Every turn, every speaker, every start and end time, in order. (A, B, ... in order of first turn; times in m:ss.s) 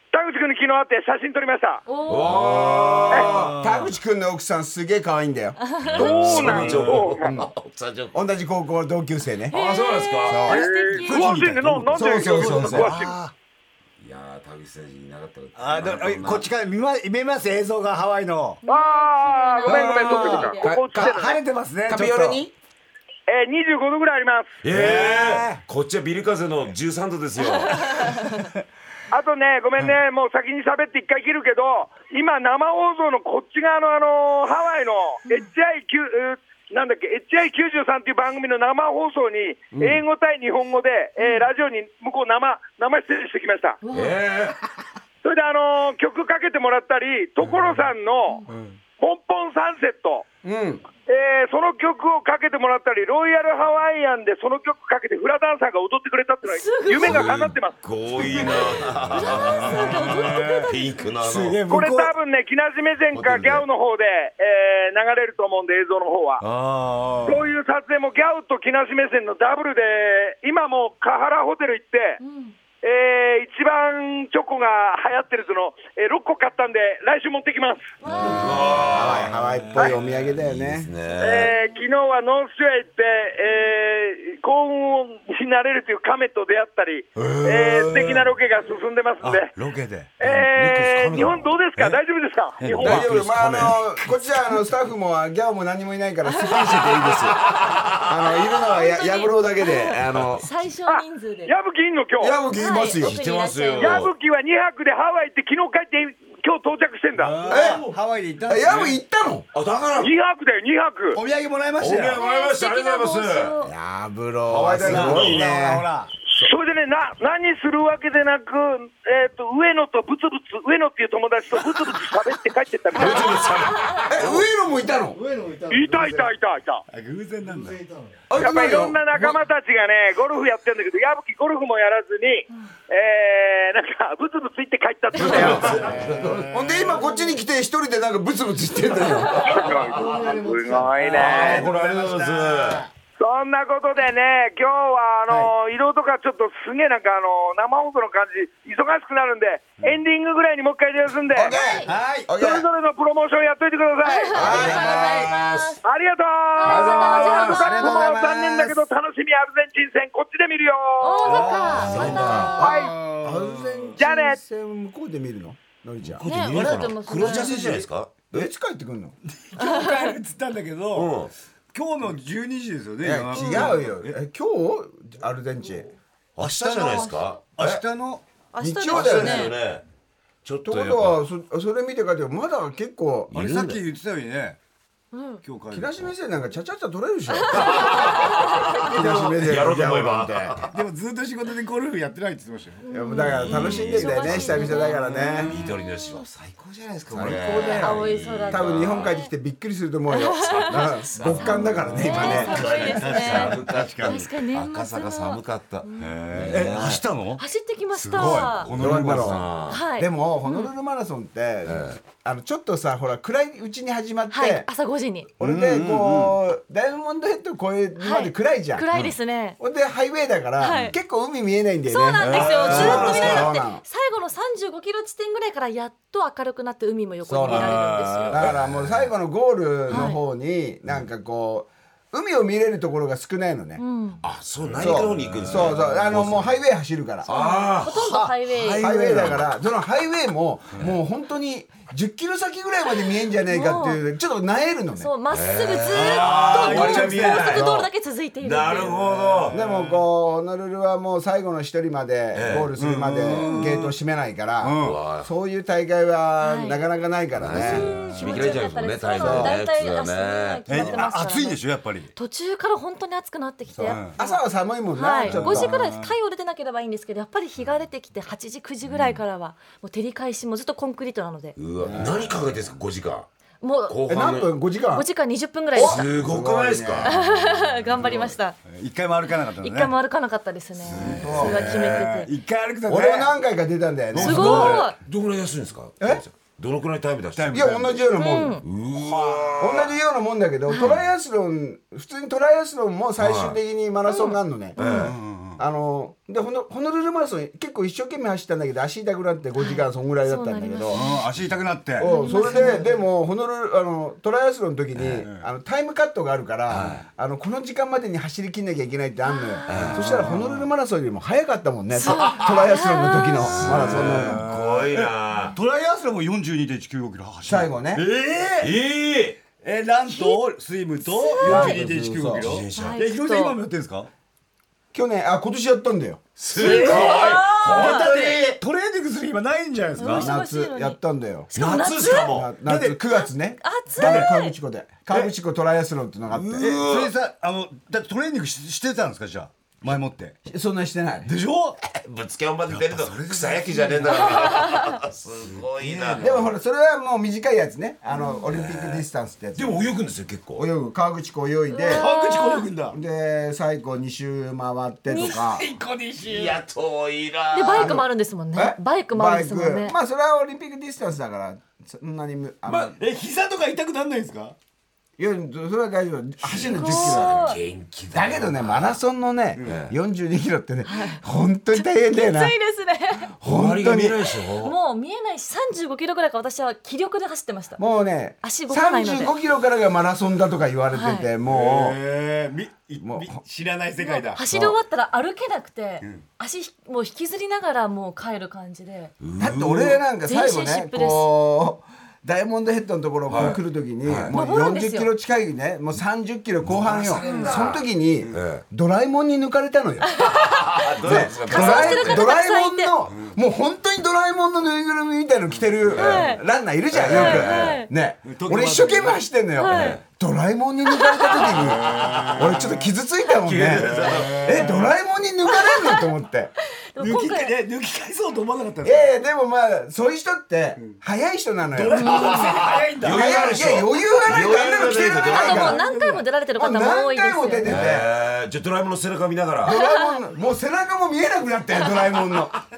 0:00.1-0:01.8 A
0:01.9-0:02.3 B
0:02.1-0:03.5 C
0:02.3-0:05.6 D
0:02.4-0:03.9 E
0:05.6-0:06.2 B
0:05.8-0:08.2 C
0:06.0-0:07.3 A
0:06.4-0:07.1 E
0:07.2-0:07.5 D
0:08.1-0:09.6 D
0:09.5-0:10.6 C
0:09.5-0:11.4 B
0:10.2-0:10.6 D
0:10.5-0:13.1 A
0:11.0-0:13.3 E
0:11.9-0:12.9 D
0:14.0-0:16.5 C
0:15.6-0:18.6 E
0:18.6-0:20.7 B
0:18.7-0:21.4 A
0:19.6-0:22.4 E
0:20.6-0:21.2 D
0:21.9-0:22.5 D
0:23.3-0:24.6 A
0:24.6-0:28.2 C
0:24.7-0:25.6 E
0:27.7-0:28.4 B
0:29.1-0:43.8 A
0:39.7-0:40.0 D
0:41.2-0:41.5 B
0:43.8-0:44.1 B
0:43.9-0:44.6 C
0:45.2-0:48.4 A
0:49.0-0:50.2 A
0:50.4-0:50.8 D
0:51.1-0:57.8 A
0:56.5-0:57.3 B
0:57.0-1:01.6 C
0:58.3-0:58.6 B
0:59.1-1:01.1 B
0:59.3-1:02.1 E
1:01.7-1:06.4 A
1:03.1-1:03.6 C
1:06.4-1:07.5 E
1:07.2-1:12.2 A
1:12.2-1:12.5 B
1:12.8-1:17.9 A
1:18.0-1:18.8 B
1:18.2-1:20.9 D
1:18.2-1:21.5 C
1:19.6-1:19.9 E
1:21.2-1:29.5 A
1:27.2-1:28.2 E
1:29.2-1:30.1 E
1:30.2-1:33.0 A
1:30.2-1:31.5 C
1:32.6-1:34.1 E
1:32.7-1:33.8 C
1:32.8-1:37.4 D
1:36.3-1:36.7 B
1:36.7-1:38.1 C
1:38.0-1:40.4 D
1:38.6-1:41.5 B
1:39.9-1:40.6 C
1:40.9-1:42.4 A
1:42.2-1:43.2 D
1:42.5-1:44.0 B
1:43.0-1:44.1 C
1:43.8-1:47.4 A
1:47.2-1:49.0 E
1:47.4-1:47.9 D
1:48.4-1:49.5 D
1:49.5-1:50.1 C
1:50.0-1:51.2 A
1:51.1-1:52.2 E
1:51.8-1:53.6 C
1:52.1-1:53.7 B
1:53.6-1:55.8 D
1:54.5-1:55.5 C
1:54.7-1:56.1 E
1:56.3-2:03.5 A
2:02.9-2:04.5 C
2:04.1-2:05.2 D
2:05.7-2:06.8 A
2:06.9-2:07.9 E
2:08.3-2:09.4 D
2:08.4-2:15.8 A
2:15.1-2:16.5 C
2:15.3-2:15.6 D
2:15.7-2:17.0 E
2:16.5-2:19.7 D
2:19.4-2:20.3 C
2:19.4-2:21.6 A
2:19.8-2:22.9 E
2:21.1-2:22.8 C
2:23.2-2:31.5 A
2:25.3-2:25.5 E
2:31.3-2:32.6 D
2:31.5-2:31.9 B
2:31.8-2:32.3 E
2:32.4-2:34.4 A
2:34.0-2:35.8 B
2:34.3-2:35.3 D
2:34.4-2:35.8 C
2:34.5-2:35.3 E
2:35.8-2:41.7 A
2:36.6-2:38.1 B
2:36.6-2:37.6 C
2:37.4-2:38.8 D
2:41.0-2:42.9 B
2:41.2-2:43.9 E
2:41.7-2:42.6 C
2:41.7-2:46.2 D
2:42.6-2:42.9 A
2:44.0-2:44.4 A
2:46.0-2:48.5 C
2:46.2-2:46.9 E
2:46.2-2:47.8 B
2:47.2-2:49.2 D
2:49.3-2:51.1 E
2:49.6-2:50.2 B
2:50.9-2:51.3 C
2:51.7-2:54.1 E
2:53.0-2:55.9 D
2:56.4-2:57.8 C
2:56.4-2:58.2 E
2:56.8-2:57.2 B
2:58.5-2:59.5 B
2:58.6-2:59.6 D
2:58.9-2:59.8 C
3:00.4-3:01.2 C
3:00.6-3:03.6 D
3:03.3-3:03.8 C
3:03.3-3:04.6 E
3:05.1-3:05.4 B
3:05.4-3:06.1 E
3:05.7-3:08.1 D
3:07.3-3:08.9 B
3:07.5-3:10.8 C
3:08.8-3:10.5 D
3:09.0-3:09.3 E
3:10.7-3:12.8 E
3:12.8-3:15.0 B
3:12.9-3:15.5 D
3:13.2-3:19.2 C
3:14.9-3:15.7 E
3:15.6-3:16.2 B
3:17.1-3:22.9 D
3:17.7-3:19.3 B
3:20.1-3:26.5 B
3:20.4-3:27.0 C
3:22.2-3:24.2 E
3:26.0-3:29.4 E
3:27.4-3:28.7 B
3:28.1-3:29.8 C
3:28.7-3:34.7 D
3:29.7-3:30.7 B
3:31.6-3:32.0 C
3:34.3-3:35.3 B
3:35.4-3:39.0 D
3:35.4-3:36.4 E
3:38.0-3:39.6 B
3:39.6-3:43.8 D
3:40.6-3:41.0 B
3:41.9-3:48.4 B
3:42.2-3:43.6 C
3:42.7-3:43.0 E
3:47.2-3:53.8 D
3:47.6-3:48.3 E
3:48.3-3:49.1 C
3:49.9-3:50.2 B
3:53.8-3:54.2 B
3:54.2-3:56.6 C
3:54.6-3:55.8 E
3:54.8-3:57.3 D
3:57.2-3:59.5 C
3:57.3-3:58.9 B
3:58.0-3:59.3 E
3:58.7-4:05.1 D
4:03.5-4:04.0 B
4:05.0-4:09.1 B
4:05.3-4:07.9 C
4:05.9-4:07.5 E
4:06.5-4:07.9 D
4:08.4-4:09.6 C
4:09.0-4:10.0 E
4:09.5-4:17.9 D
4:12.3-4:12.7 C
4:12.7-4:14.0 E
4:13.3-4:13.7 B
4:14.6-4:15.0 E
4:14.8-4:15.3 C
4:16.4-4:16.8 B
4:17.4-4:20.8 C
4:17.6-4:21.6 B
4:17.7-4:18.5 E
4:19.2-4:19.6 D
4:20.6-4:22.1 E
4:22.2-4:24.4 B
4:23.7-4:25.7 D
4:23.8-4:24.2 E
4:24.9-4:31.6 B
4:25.2-4:26.1 E
4:28.9-4:29.2 C
4:31.6-4:33.3 C
4:31.8-4:32.2 D
4:31.8-4:32.6 E
4:33.6-4:34.3 B
4:33.9-4:34.5 C
4:34.1-4:35.1 D
4:34.9-4:36.0 B
4:35.7-4:37.2 D
4:35.8-4:37.2 C
4:37.0-4:38.6 B
4:38.0-4:39.9 E
4:39.5-4:42.3 B
4:40.8-4:42.1 C
4:40.9-4:43.3 E
4:41.0-4:41.8 D
4:42.9-4:44.8 D
4:44.1-4:44.9 E
4:44.2-4:47.9 C
4:44.2-4:45.0 B
4:47.4-4:47.9 E
4:47.5-4:48.6 D
4:48.2-4:48.6 B
4:48.6-4:50.0 C
4:49.0-4:49.6 E
4:49.6-4:54.9 D
4:50.7-4:50.9 B
4:50.8-4:51.0 C
4:53.2-4:53.6 C
4:54.1-4:55.1 B
4:54.8-4:55.2 C
4:54.9-4:55.6 E
4:55.6-5:01.0 D
4:59.6-5:01.2 B
5:00.9-5:02.8 E
5:02.0-5:14.4 D
5:02.0-5:02.9 B
5:05.0-5:05.2 C
5:06.7-5:07.0 C
5:09.2-5:09.9 B
5:09.7-5:10.3 C
5:09.8-5:10.6 E
5:12.0-5:13.5 B
5:12.0-5:12.7 C
5:13.4-5:15.6 C
5:13.6-5:18.8 E
5:17.4-5:18.0 D
5:18.6-5:19.4 C
5:19.6-5:24.1 E
5:20.1-5:20.4 B
5:21.0-5:21.8 B
5:21.4-5:22.6 D
5:22.4-5:23.0 C
5:22.8-5:23.6 B
5:24.9-5:26.2 D
5:26.4-5:28.6 C
5:26.6-5:28.2 B
5:26.6-5:30.3 E
5:30.0-5:31.0 B
5:30.1-5:31.5 D
5:31.5-5:32.4 B
5:31.5-5:32.5 C
5:32.1-5:36.8 D
5:32.6-5:33.0 E
5:33.1-5:34.5 B
5:34.0-5:34.3 E
5:36.3-5:40.4 E
5:36.6-5:37.2 C
5:40.4-5:41.3 D
5:41.2-5:41.8 E
5:41.8-5:46.5 C
5:42.7-5:44.5 E
5:44.1-5:45.0 B
5:45.8-5:46.5 E
5:46.2-5:49.9 D
5:48.3-5:50.6 C
5:50.5-5:52.1 D
5:51.7-5:52.7 B
5:51.8-5:53.0 E
5:52.9-5:55.6 D
5:55.1-5:56.6 E
5:56.2-5:58.0 C
5:57.5-6:00.0 B
5:57.7-6:03.0 D
6:02.7-6:04.5 E
6:05.2-6:07.6 D
6:06.4-6:09.0 C
6:06.7-6:07.6 B
6:08.1-6:12.6 D
6:09.6-6:09.9 C
6:10.8-6:11.2 B
6:11.7-6:13.3 B
6:13.4-6:14.3 D
6:13.4-6:14.8 C
6:14.6-6:17.8 B
6:17.8-6:22.0 D
6:18.4-6:19.3 B
6:20.9-6:21.3 B
6:21.4-6:24.4 E
6:23.0-6:23.4 D
6:24.0-6:29.1 B
6:29.2-6:30.0 C
6:29.4-6:40.2 D
6:30.3-6:31.3 B
6:33.3-6:34.3 C
6:34.3-6:35.1 B
6:36.6-6:38.6 C
6:37.2-6:37.6 B
6:40.2-6:42.3 C
6:40.2-6:40.7 B
6:41.0-6:56.5 D
6:41.4-6:42.9 B
6:45.9-6:46.3 C
6:46.0-6:46.4 B
6:46.9-6:47.8 C
6:47.1-6:47.9 B
6:48.2-6:49.2 E
6:49.6-6:50.0 B
6:49.7-6:50.0 C
6:50.8-6:51.5 B
6:51.5-6:52.8 E
6:51.6-6:52.5 C
6:53.4-6:54.5 C
6:53.7-6:54.9 E
6:55.5-6:56.1 B
6:56.9-6:57.6 B
6:57.0-6:59.0 E
6:58.8-7:02.4 D
7:01.7-7:03.7 E
7:02.0-7:02.5 B
7:02.2-7:05.7 C
7:03.0-7:05.8 D
7:05.2-7:07.7 B
7:05.5-7:06.2 E
7:06.5-7:08.1 D
7:07.6-7:09.8 C
7:09.6-7:12.6 D
7:09.6-7:10.2 B